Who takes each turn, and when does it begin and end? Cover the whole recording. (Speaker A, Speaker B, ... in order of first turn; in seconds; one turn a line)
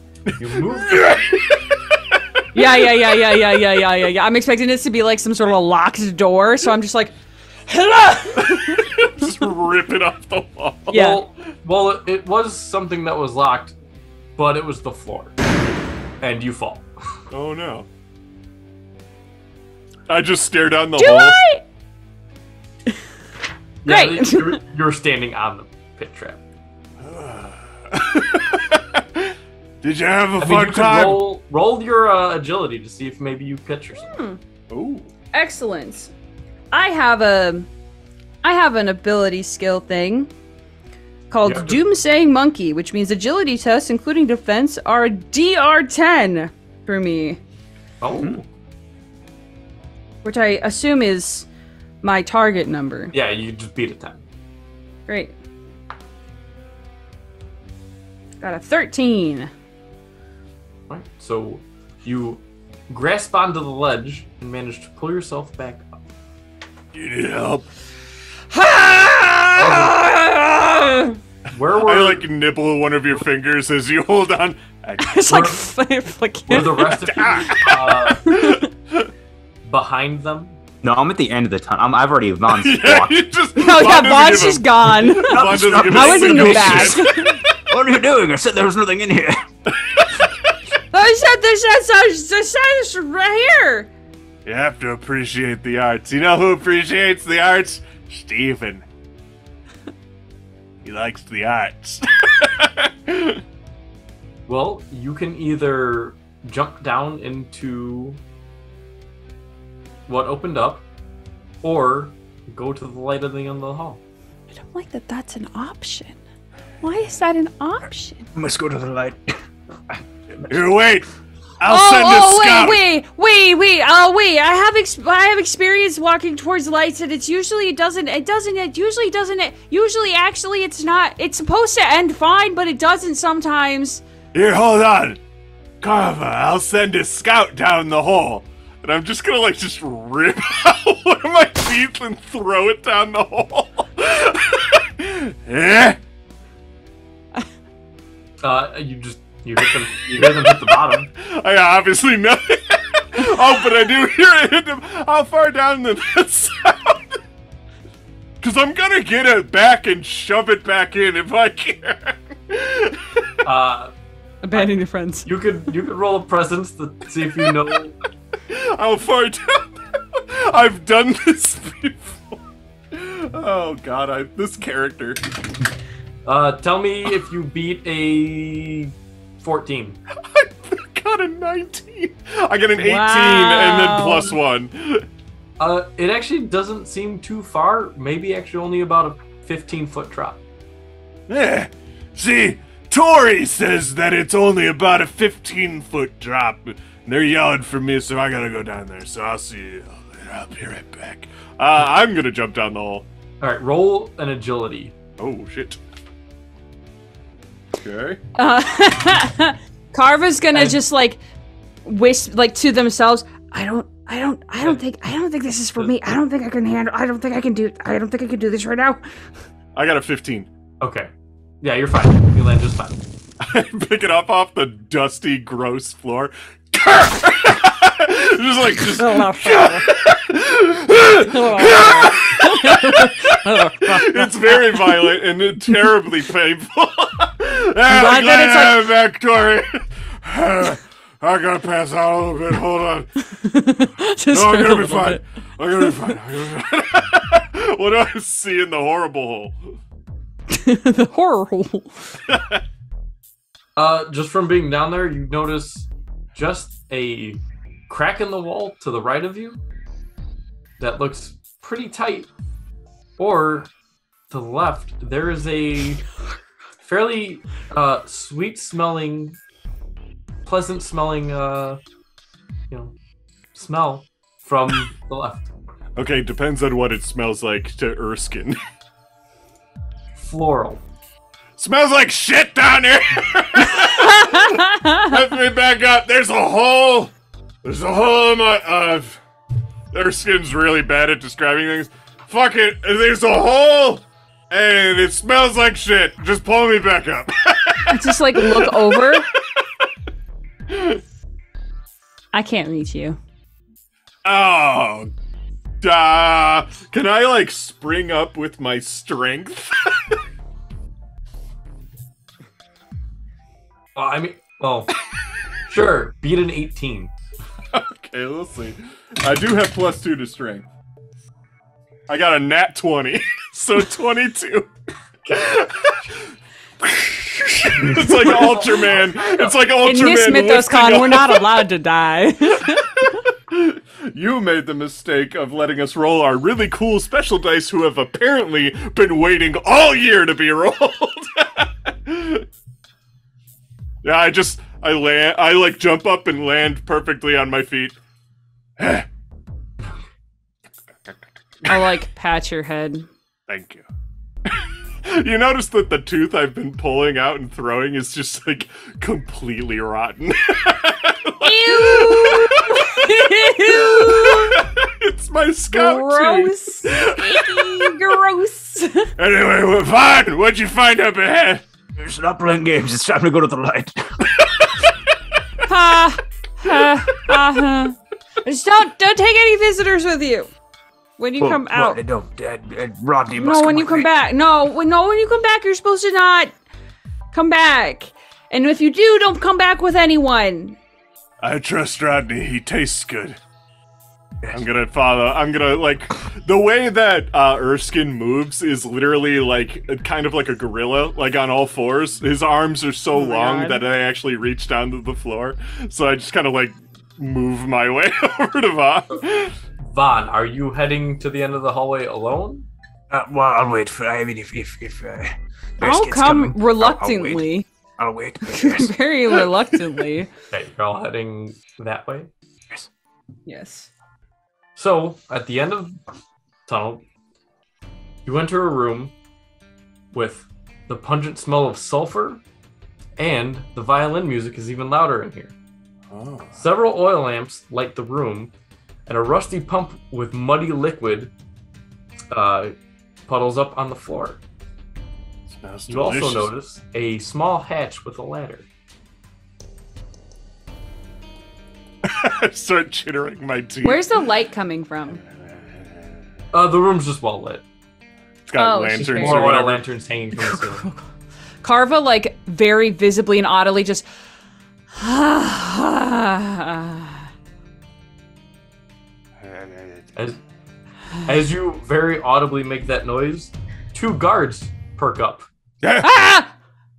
Speaker A: 0.4-1.2
Speaker B: 0.7-3.5
Speaker C: 2.5-7.2
Speaker C: 7.7-8.9
Speaker B: 8.4-11.0
Speaker C: 10.9-11.2
Speaker A: 10.9-13.8
Speaker A: 14.4-15.3
Speaker A: 16.2-16.9
Speaker B: 17.3-17.9
Speaker B: 20.1-21.4
Speaker C: 21.0-21.6
Speaker A: 23.8-26.4
Speaker C: 23.9-24.6
Speaker B: 27.0-31.3
Speaker A: 30.4-34.1
Speaker C: 34.0-34.4
Speaker B: 34.7-35.1
Speaker C: 35.3-36.1
Speaker C: 36.7-37.7
Speaker C: 38.4-40.3
Speaker C: 41.3-47.4
Speaker A: 41.4-41.8
Speaker A: 48.0-48.5
Speaker C: 50.2-51.5
Speaker C: 52.0-53.1
Speaker A: 53.1-54.2
Speaker C: 55.1-55.3
Speaker C: 58.4-59.5
Speaker A: 60.9-66.0
Speaker B: 66.9-67.7
Speaker C: 68.5-71.2
Speaker A: 69.5-70.0
Speaker A: 71.5-72.3
Speaker B: 71.8-75.2
Speaker C: 75.0-77.0
Speaker A: 75.3-75.6
Speaker A: 76.5-78.3
Speaker B: 77.1-79.1
Speaker C: 78.2-78.7
Speaker A: 79.7-80.6
Speaker D: 80.8-83.3
Speaker B: 82.6-87.3
Speaker C: 83.6-87.4
Speaker D: 85.2-87.2
Speaker D: 87.7-89.4
Speaker B: 89.9-90.3
Speaker C: 90.9-93.9
Speaker B: 94.5-98.8
Speaker B: 100.8-103.4
Speaker A: 104.5-108.2
Speaker A: 110.1-110.8
Speaker A: 111.6-114.0
Speaker C: 114.5-116.2
Speaker C: 116.8-118.3
Speaker D: 118.3-119.3
Speaker D: 119.9-120.6
Speaker B: 120.5-121.1
Speaker B: 121.6-122.8
Speaker C: 121.7-134.0
Speaker B: 134.3-135.2
Speaker B: 135.8-146.0
Speaker A: 148.4-151.1
Speaker B: 150.1-157.2
Speaker B: 158.4-163.3
Speaker A: 163.4-163.9
Speaker C: 164.4-165.3
Speaker A: 164.5-167.9
Speaker B: 168.5-172.4
Speaker B: 172.9-175.2
Speaker A: 176.2-180.0
Speaker B: 180.3-185.1
Speaker C: 182.8-184.4
Speaker A: 185.6-190.4
Speaker B: 191.3-203.1
Speaker A: 203.4-204.9
Speaker B: 205.2-205.8
Speaker B: 207.7-208.2
Speaker C: 208.4-211.2
Speaker A: 210.5-210.8
Speaker C: 211.8-219.0
Speaker B: 219.7-220.5
Speaker A: 220.8-221.1
Speaker A: 221.6-223.0
Speaker B: 223.4-243.1
Speaker C: 229.0-229.9
Speaker C: 231.1-235.2
Speaker C: 237.9-238.9
Speaker C: 243.4-245.2
Speaker B: 244.3-249.6
Speaker C: 245.8-246.1
Speaker C: 250.5-252.2
Speaker B: 252.3-252.6
Speaker A: 253.8-259.6
Speaker A: 260.8-262.3
Speaker A: 263.2-263.7
Speaker A: 264.3-266.0
Speaker A: 266.8-269.4
Speaker A: 270.4-271.8
Speaker A: 273.5-275.5
Speaker B: 276.0-278.6
Speaker A: 280.2-280.8
Speaker B: 281.6-287.1
Speaker C: 283.6-285.1
Speaker B: 287.6-289.2
Speaker B: 289.9-299.2
Speaker C: 297.9-299.3
Speaker B: 300.7-301.0
Speaker C: 302.3-303.2
Speaker B: 304.2-305.1
Speaker B: 305.8-310.2
Speaker A: 314.0-314.9
Speaker A: 315.7-317.1
Speaker B: 317.7-320.7
Speaker B: 322.1-324.7
Speaker B: 325.3-326.1
Speaker B: 326.8-331.7
Speaker A: 328.2-329.6
Speaker C: 329.8-333.1
Speaker B: 333.5-342.5
Speaker B: 344.0-348.0
Speaker B: 348.8-349.1
Speaker B: 351.6-352.0
Speaker C: 351.7-353.1
Speaker B: 353.5-353.9
Speaker B: 354.5-367.9
Speaker C: 361.4-364.6
Speaker C: 365.7-369.1
Speaker B: 369.2-371.6
Speaker D: 371.9-374.3
Speaker B: 374.4-374.7
Speaker C: 375.7-380.5
Speaker C: 381.2-382.0
Speaker D: 381.4-384.1
Speaker C: 383.4-386.5
Speaker C: 387.3-390.8
Speaker B: 391.4-393.4
Speaker B: 394.5-409.6
Speaker C: 403.1-403.8
Speaker A: 409.8-412.7
Speaker D: 413.1-417.5
Speaker C: 415.8-417.7
Speaker D: 418.0-418.9
Speaker C: 418.5-420.3
Speaker A: 420.5-422.3
Speaker C: 423.5-423.9
Speaker A: 424.8-426.0
Speaker A: 426.7-427.0
Speaker A: 428.2-429.1
Speaker A: 430.1-432.4
Speaker A: 433.2-435.5
Speaker B: 436.1-436.6
Speaker A: 436.6-438.5
Speaker A: 439.1-441.3
Speaker A: 442.3-442.7
Speaker A: 443.3-444.4
Speaker B: 445.5-446.5
Speaker A: 445.9-448.7
Speaker B: 452.0-454.2
Speaker C: 453.8-455.2
Speaker B: 455.3-455.7
Speaker A: 456.5-457.6
Speaker B: 458.5-459.9
Speaker C: 458.6-459.6
Speaker A: 458.9-460.9
Speaker C: 460.4-461.0
Speaker C: 461.6-464.1
Speaker C: 465.0-467.2
Speaker B: 469.4-470.1
Speaker A: 470.2-470.4
Speaker A: 471.2-475.5
Speaker B: 475.8-476.3
Speaker C: 476.0-476.5